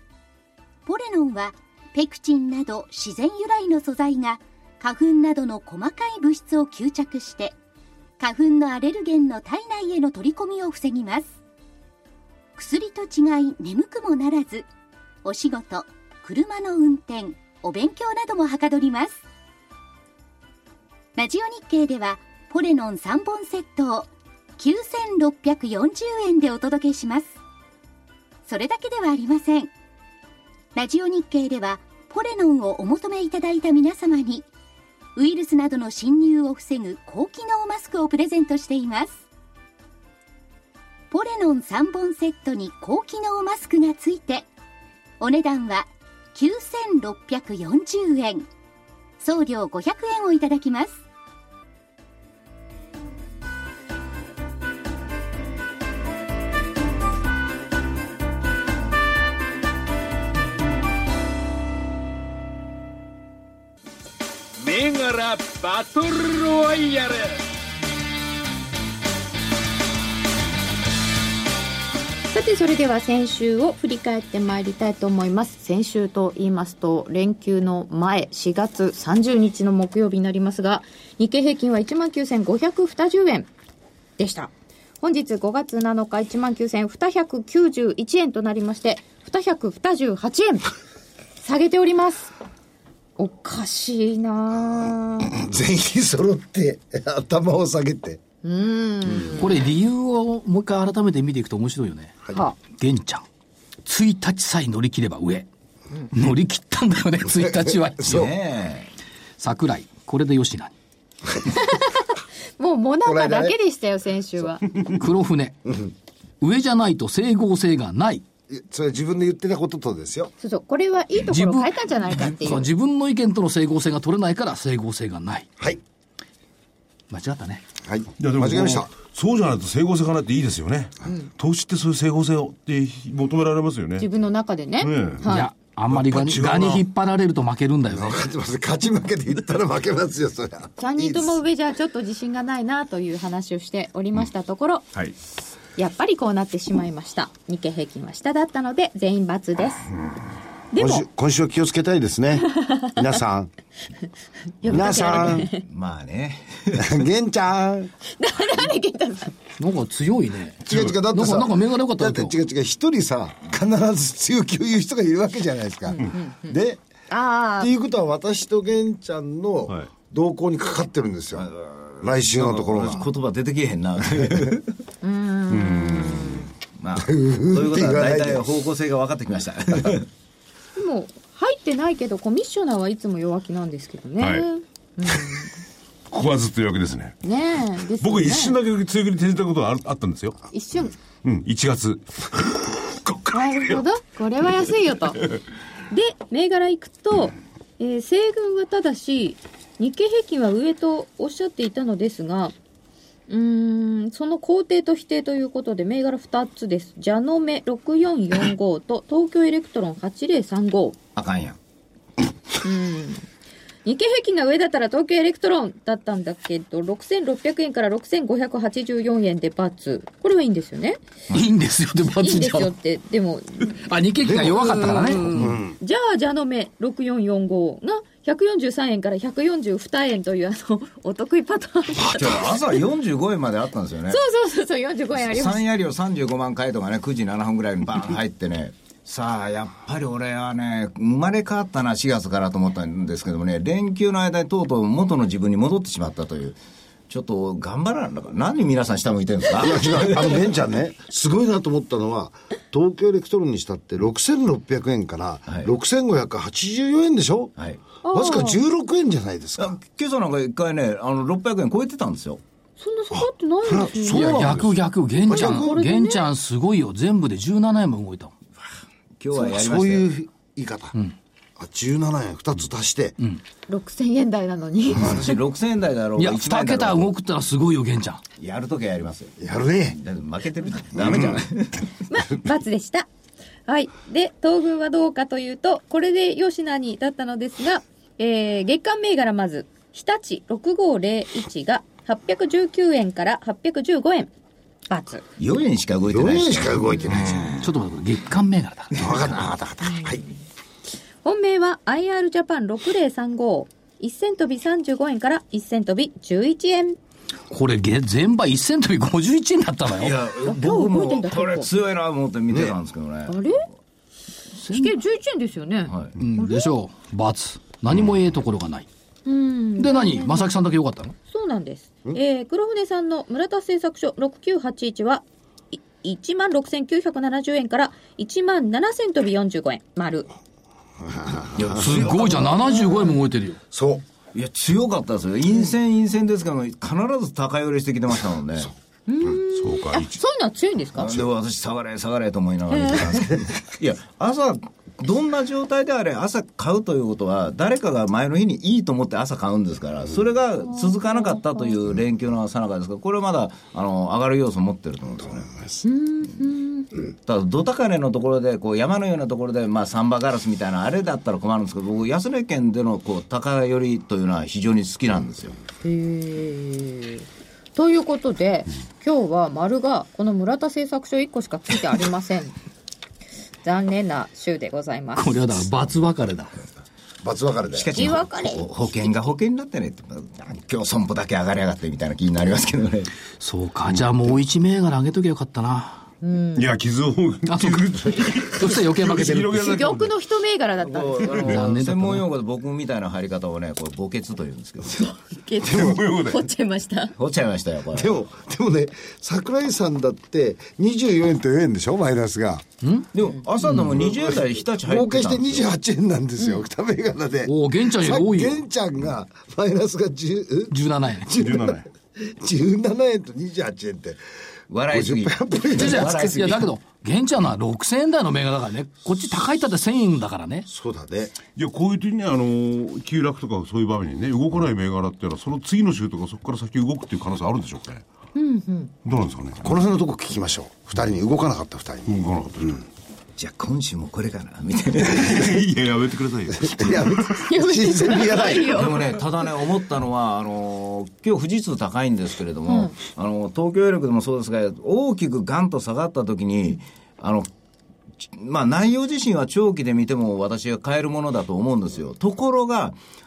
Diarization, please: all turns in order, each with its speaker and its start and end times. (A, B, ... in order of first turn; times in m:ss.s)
0:00.8-0:07.6 A
0:08.2-0:11.3 A
0:12.6-0:14.7 A
0:15.2-0:19.2 A
0:21.1-0:27.3 A
0:28.5-0:29.7 A
0:30.7-0:34.5 A
0:35.2-0:39.2 A
0:41.1-0:44.5 A
0:45.2-0:48.5 A
0:49.2-0:51.0 A
1:04.6-1:07.4 B
1:12.3-1:23.5 C
1:24.2-1:24.5 C
1:25.0-1:30.8 C
1:31.4-1:32.3 C
1:33.2-1:35.3 C
1:35.3-1:38.2 D
1:38.4-1:39.5 C
1:39.4-1:43.2 E
1:43.8-1:45.5 E
1:46.1-1:48.3 E
1:47.6-1:48.2 D
1:48.0-1:48.9 F
1:49.4-1:50.7 E
1:51.5-1:54.7 C
1:53.0-1:53.6 D
1:55.0-1:55.7 E
1:56.4-1:58.2 E
1:58.5-2:00.3 D
2:00.4-2:02.7 C
2:01.3-2:05.5 E
2:07.1-2:07.6 E
2:07.8-2:08.9 D
2:08.2-2:14.1 G
2:14.0-2:15.5 C
2:14.8-2:15.3 G
2:15.3-2:18.2 E
2:15.9-2:16.8 G
2:17.9-2:21.4 D
2:20.8-2:24.9 C
2:25.8-2:29.9 C
2:30.7-2:31.0 C
2:30.7-2:33.5 D
2:34.6-2:35.6 C
2:34.6-2:35.5 D
2:34.9-2:37.0 F
2:36.7-2:37.9 D
2:38.1-2:39.3 C
2:39.6-2:42.4 E
2:40.7-2:46.8 D
2:45.9-2:46.6 C
2:47.1-2:47.7 C
2:47.6-2:51.5 D
2:51.4-2:54.7 F
2:52.0-2:53.1 D
2:55.0-2:56.5 C
2:55.5-2:56.4 G
2:56.8-3:00.1 F
2:57.0-2:58.5 D
3:00.8-3:05.5 C
3:04.2-3:04.4 G
3:06.1-3:07.2 G
3:07.2-3:08.6 C
3:08.0-3:10.4 G
3:10.5-3:11.0 C
3:11.2-3:13.8 G
3:13.3-3:15.3 C
3:15.9-3:22.5 C
3:23.3-3:31.0 C
3:31.2-3:31.6 F
3:32.6-3:33.2 C
3:33.8-3:41.0 C
3:41.3-3:42.7 E
3:42.2-3:52.6 C
3:43.8-3:45.6 E
3:45.3-3:45.8 D
3:52.0-3:54.2 F
3:54.1-3:55.6 C
3:55.1-4:06.6 F
4:07.1-4:10.4 F
4:09.6-4:17.5 D
4:17.6-4:17.8 F
4:18.0-4:18.6 C
4:18.1-4:19.8 D
4:19.6-4:22.4 F
4:22.8-4:24.6 C
4:23.2-4:24.7 D
4:24.1-4:28.3 E
4:25.3-4:25.8 D
4:25.3-4:26.3 C
4:29.2-4:30.1 F
4:29.3-4:30.9 D
4:31.6-4:33.2 D
4:33.7-4:35.4 C
4:34.9-4:37.1 F
4:36.2-4:38.2 E
4:38.4-4:39.4 F
4:39.4-4:40.0 D
4:39.9-4:41.9 F
4:41.0-4:41.4 D
4:42.1-4:43.1 C
4:43.7-4:54.3 C
4:54.9-4:55.2 C
4:55.4-4:57.5 F
4:56.1-4:57.6 D
4:57.6-4:59.4 E
4:59.0-5:00.2 D
4:59.8-5:00.3 C
5:01.2-5:07.0 C
5:07.5-5:10.2 E
5:09.9-5:13.6 F
5:10.4-5:11.7 C
5:13.3-5:13.6 C
5:14.5-5:14.9 E
5:14.7-5:16.7 C
5:15.9-5:16.1 F
5:16.2-5:18.9 E
5:19.2-5:20.5 C
5:19.8-5:21.1 E
5:21.3-5:30.3 C
5:31.0-5:31.8 D
5:31.6-5:32.4 F
5:31.7-5:33.6 E
5:32.3-5:33.1 C
5:33.7-5:34.0 D
5:34.3-5:38.7 F
5:39.1-5:41.2 C
5:39.4-5:40.2 G
5:40.9-5:55.5 F
5:42.7-5:43.1 C
5:50.7-5:51.7 C
5:55.8-5:56.9 C
5:57.3-6:05.6 F
6:05.8-6:12.6 C
6:13.6-6:15.5 C
6:15.2-6:16.6 E
6:17.2-6:18.2 D
6:17.7-6:23.1 F
6:17.9-6:18.7 C
6:23.4-6:26.0 E
6:26.2-6:26.7 C
6:26.5-6:30.2 G
6:27.5-6:29.7 E
6:29.6-6:31.6 C
6:30.8-6:35.0 F
6:31.4-6:32.2 E
6:34.8-6:37.1 C
6:35.6-6:36.4 G
6:37.2-6:38.2 F
6:37.9-6:42.6 D
6:42.8-6:43.1 E
6:43.1-6:45.7 F
6:43.9-6:50.7 D
6:47.4-6:48.6 E
6:50.7-6:51.4 E
6:51.3-6:54.2 D
6:51.4-6:51.8 G
6:54.7-6:56.7 F
6:54.9-6:56.4 D
6:55.7-7:00.7 E
7:00.7-7:01.3 D
7:01.6-7:08.0 G
7:08.3-7:08.9 C
7:09.0-7:09.8 G
7:09.6-7:12.1 D
7:12.0-7:12.8 G
7:13.4-7:15.6 F
7:15.1-7:17.4 G
7:16.6-7:19.0 D
7:17.3-7:19.2 C
7:18.6-7:27.5 F
7:22.7-7:22.9 C
7:28.2-7:33.0 F